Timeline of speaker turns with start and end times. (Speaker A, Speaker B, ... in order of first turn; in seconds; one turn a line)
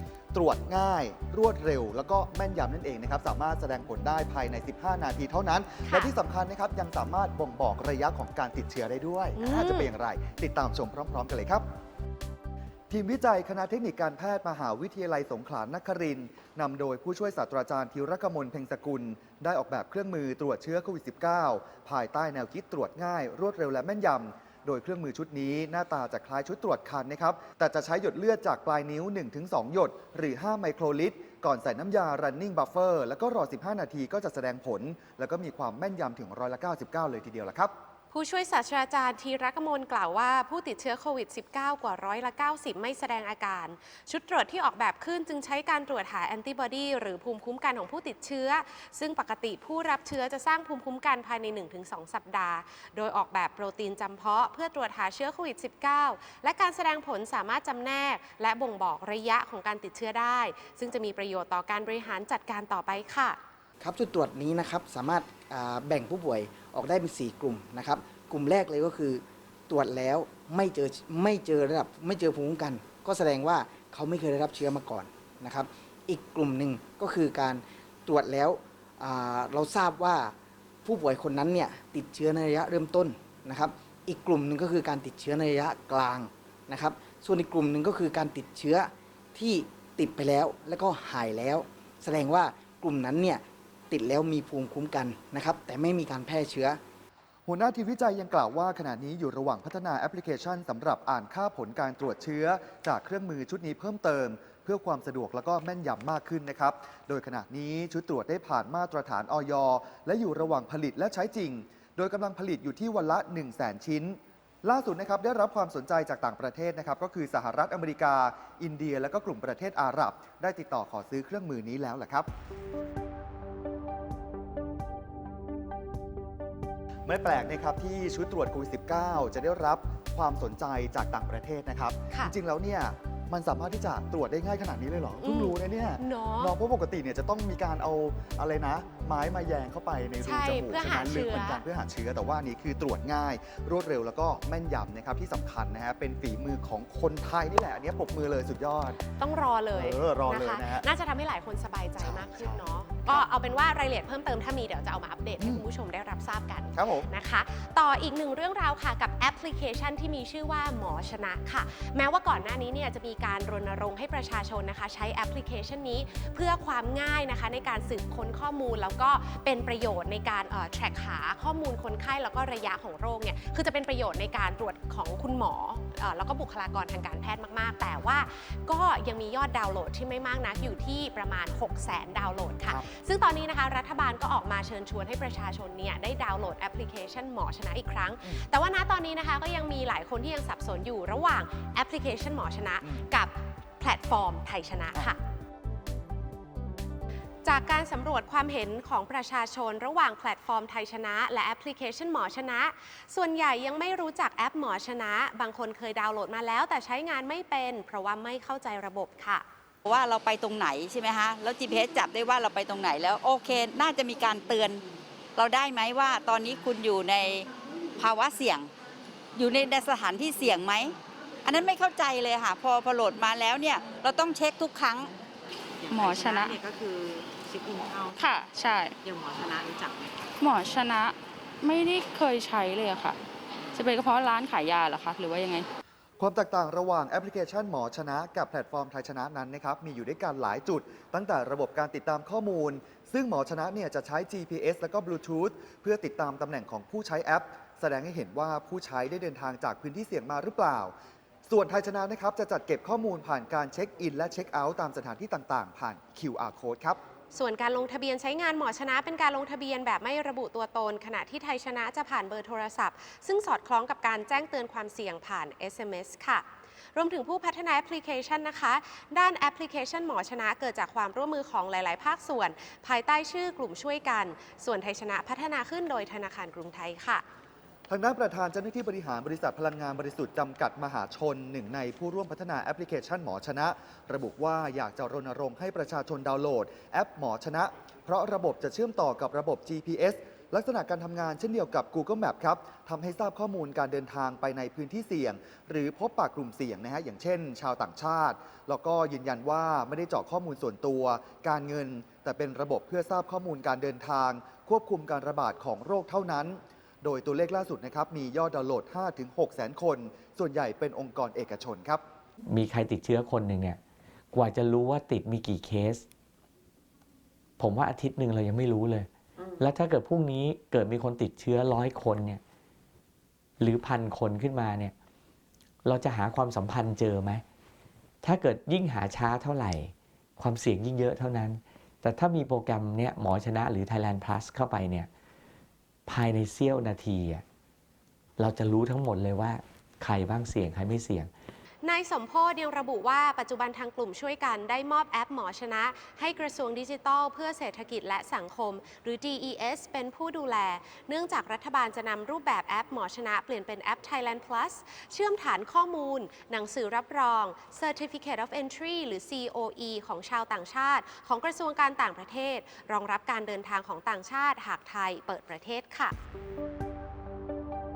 Speaker A: 0.3-11.6
Speaker B: 5.8-6.1
Speaker B: 9.3-9.9
Speaker A: 12.9-37.7
Speaker B: 38.1-63.4
Speaker C: 63.8-96.8
Speaker A: 97.5-122.3
Speaker A: 127.0-149.0
Speaker B: 135.2-136.5
Speaker B: 140.2-141.6
Speaker B: 149.2-195.2
Speaker A: 149.7-150.8
Speaker A: 152.0-153.2
Speaker A: 155.4-155.6
Speaker A: 156.7-157.1
Speaker B: 197.4-209.4
Speaker D: 209.9-214.8
Speaker D: 215.3-218.7
Speaker D: 219.3-225.1
Speaker E: 225.8-228.3
Speaker F: 225.9-226.6
Speaker F: 228.2-229.0
Speaker E: 229.0-230.1
Speaker F: 230.4-233.2
Speaker F: 233.7-235.7
Speaker A: 236.2-250.9
Speaker A: 251.5-257.0
Speaker B: 257.3-277.2
Speaker A: 277.9-312.0
Speaker G: 312.5-313.8
Speaker G: 314.3-316.0
Speaker G: 317.6-322.4
Speaker G: 323.6-324.9
Speaker G: 325.8-327.4
Speaker G: 328.2-335.1
Speaker G: 336.1-337.4
Speaker G: 338.4-341.3
Speaker B: 341.8-366.1